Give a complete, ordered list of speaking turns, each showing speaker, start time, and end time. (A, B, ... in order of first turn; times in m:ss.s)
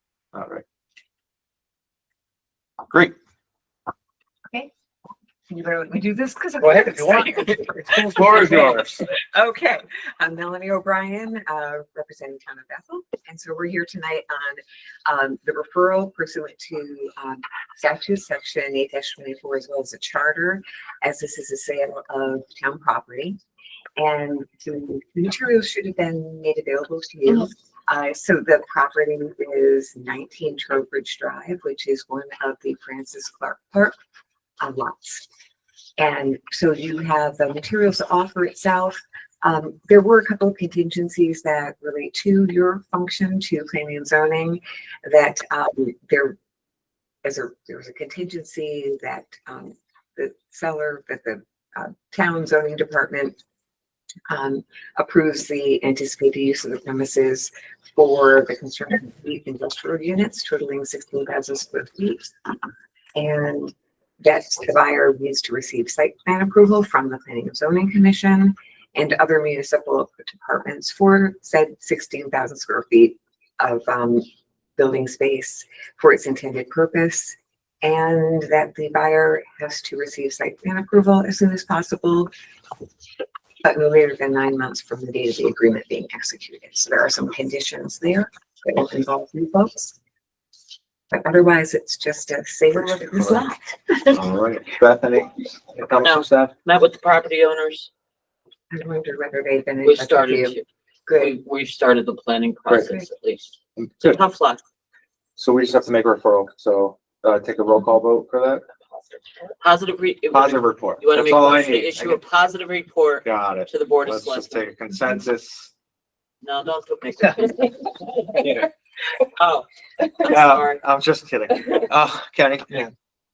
0:00.3-0:00.6 A
0:05.5-0:23.4 B
0:06.6-0:09.0 A
0:24.0-0:34.0 B
0:34.6-0:35.3 B
0:36.0-0:46.4 B
0:47.2-0:53.4 B
0:54.3-1:02.3 B
1:03.1-1:14.2 B
1:14.8-1:22.3 B
1:23.6-1:29.9 B
1:31.1-1:33.8 B
1:33.0-1:33.4 A
1:34.1-1:36.5 A
1:36.0-1:37.9 C
1:38.7-1:41.4 B
1:39.8-1:43.4 C
1:42.7-1:42.9 A
1:43.8-1:44.2 A
1:44.0-1:44.6 C
1:45.4-1:48.6 A
1:49.6-1:54.6 C
1:50.3-1:52.2 A
1:53.2-1:55.7 A
1:56.4-1:57.9 C
1:58.3-1:58.7 A
1:59.4-2:00.8 C
2:00.2-2:02.8 A